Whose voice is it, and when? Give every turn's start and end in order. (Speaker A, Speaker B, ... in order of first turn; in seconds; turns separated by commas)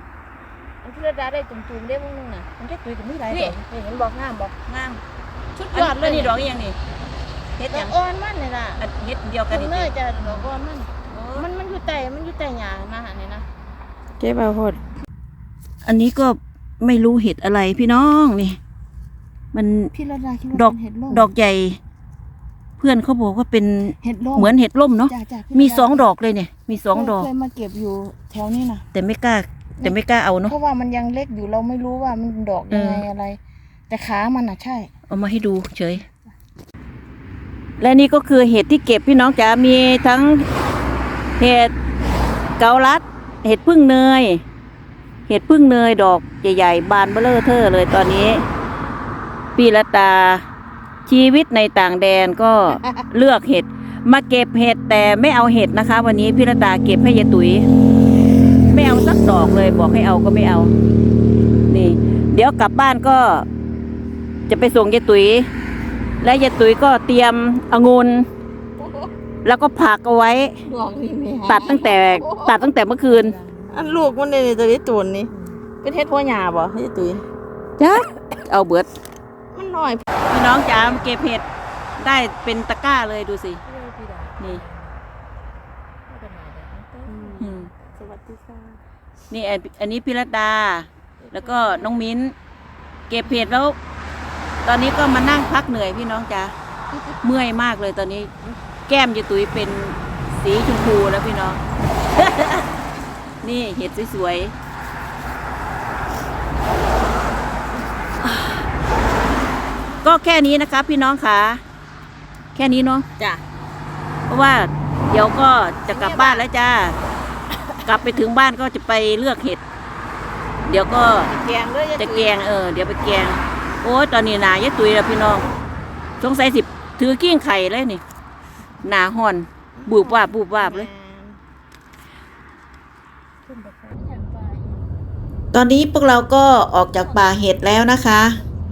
Speaker A: 0.8-2.5, Speaker B: 2.5-3.6, Speaker A: 3.3-4.5, Speaker B: 4.6-5.0, Speaker A: 5.5-6.4, Speaker B: 5.7-6.8, Speaker B: 7.6-8.0, Speaker A: 7.7-8.8, Speaker B: 8.8-10.5, Speaker A: 9.5-13.5, Speaker B: 11.1-11.4, Speaker A: 14.2-14.8, Speaker B: 15.8-18.6, Speaker B: 19.5-19.9, Speaker A: 19.9-21.3, Speaker B: 20.5-21.8, Speaker B: 22.8-27.3, Speaker A: 24.0-24.5, Speaker A: 25.1-26.1, Speaker A: 26.9-28.8, Speaker B: 28.9-30.5, Speaker A: 30.4-34.9, Speaker B: 32.7-33.0, Speaker B: 35.1-36.0, Speaker B: 37.8-40.5, Speaker B: 41.4-41.7, Speaker B: 42.6-44.4, Speaker B: 45.3-48.5, Speaker B: 49.5-50.5, Speaker B: 51.1-57.7, Speaker B: 58.6-60.7, Speaker B: 61.7-63.5, Speaker B: 64.5-65.5, Speaker B: 66.2-68.3, Speaker B: 69.4-70.6, Speaker A: 70.6-77.2, Speaker B: 71.5-73.4, Speaker B: 77.8-78.9, Speaker A: 79.5-80.0, Speaker B: 80.3-83.6, Speaker A: 80.7-81.2, Speaker A: 83.8-84.6, Speaker B: 84.4-84.6, Speaker A: 86.1-88.8, Speaker B: 87.4-87.7, Speaker B: 89.3-92.3, Speaker A: 91.4-92.0, Speaker B: 93.1-93.8, Speaker B: 94.6-96.5, Speaker B: 97.2-98.3, Speaker B: 98.9-101.6, Speaker B: 102.1-102.7, Speaker B: 103.4-104.5, Speaker B: 110.0-111.6, Speaker B: 112.5-113.0, Speaker B: 114.3-117.0, Speaker A: 115.9-116.4, Speaker B: 117.8-119.6, Speaker B: 120.7-121.3, Speaker A: 121.2-122.4, Speaker B: 122.0-125.5, Speaker B: 126.2-128.0, Speaker B: 128.8-130.9, Speaker A: 129.8-131.4, Speaker A: 133.5-134.7, Speaker C: 135.5-138.4